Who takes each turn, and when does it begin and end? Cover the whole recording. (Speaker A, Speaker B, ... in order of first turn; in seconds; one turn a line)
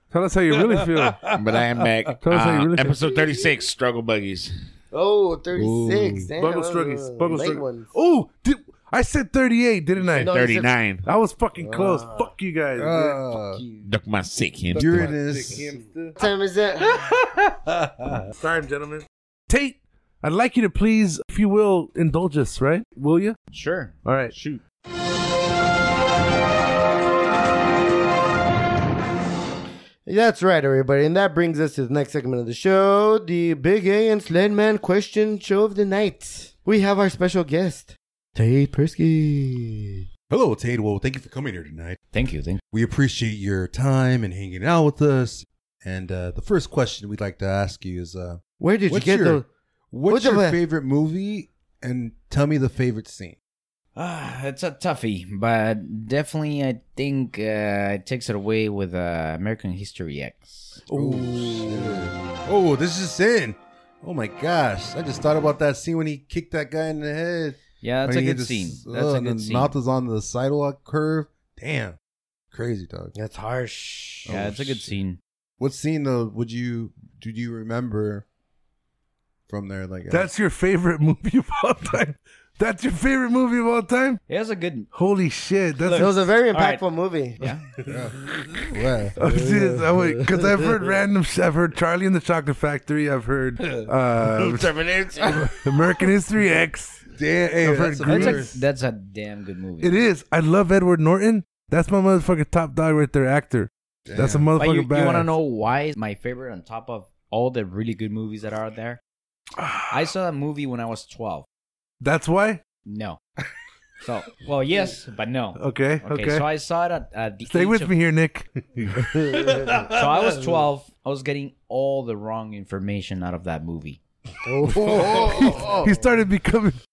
Speaker A: 0.1-1.3
Speaker B: 0.5-1.6
Speaker C: 1.3-4.5
Speaker A: 2.2-3.0
Speaker D: 4.9-7.9
Speaker B: 5.5-6.3
Speaker A: 6.4-10.3
Speaker D: 10.0-10.7
Speaker C: 10.2-11.0
Speaker A: 11.0-13.2
Speaker D: 11.6-12.3
Speaker B: 12.8-13.6
Speaker D: 13.5-13.9
Speaker C: 13.8-15.1
Speaker B: 14.7-15.8
Speaker A: 14.7-16.2
Speaker D: 16.2-16.9
Speaker B: 17.0-18.3
Speaker A: 18.3-23.4
Speaker E: 23.5-24.6
Speaker A: 24.0-24.3
Speaker D: 30.1-40.0
Speaker B: 40.3-42.0
Speaker E: 42.1-42.6
Speaker B: 42.7-53.4
Speaker D: 48.6-49.5
Speaker D: 50.1-50.6
Speaker E: 54.0-60.9
Speaker B: 60.9-72.0
Speaker A: 60.9-61.4
Speaker D: 61.0-62.0
Speaker E: 67.8-69.7
Speaker B: 72.5-73.1
Speaker D: 73.1-74.3
Speaker B: 74.3-74.9
Speaker E: 74.3-75.2
Speaker B: 75.6-78.2
Speaker B: 79.5-80.3
Speaker A: 80.1-84.2
Speaker E: 84.3-84.9
Speaker A: 84.9-86.1
Speaker E: 85.8-86.8
Speaker D: 85.9-87.4
Speaker E: 87.4-87.8
Speaker B: 87.8-89.2
Speaker A: 89.2-94.7
Speaker D: 89.2-90.8
Speaker D: 94.4-95.5
Speaker A: 95.3-97.0
Speaker B: 97.1-98.5
Speaker A: 97.6-98.6
Speaker E: 98.0-99.9
Speaker A: 99.8-105.3
Speaker B: 104.1-104.5
Speaker E: 104.6-109.0
Speaker A: 109.6-110.0
Speaker E: 109.9-111.5
Speaker A: 112.0-112.6
Speaker E: 112.8-113.2
Speaker E: 114.0-117.9
Speaker A: 115.5-116.5
Speaker A: 117.5-119.7
Speaker D: 119.3-119.7
Speaker E: 119.8-124.0
Speaker D: 124.4-126.1
Speaker B: 124.8-125.9
Speaker A: 125.0-126.8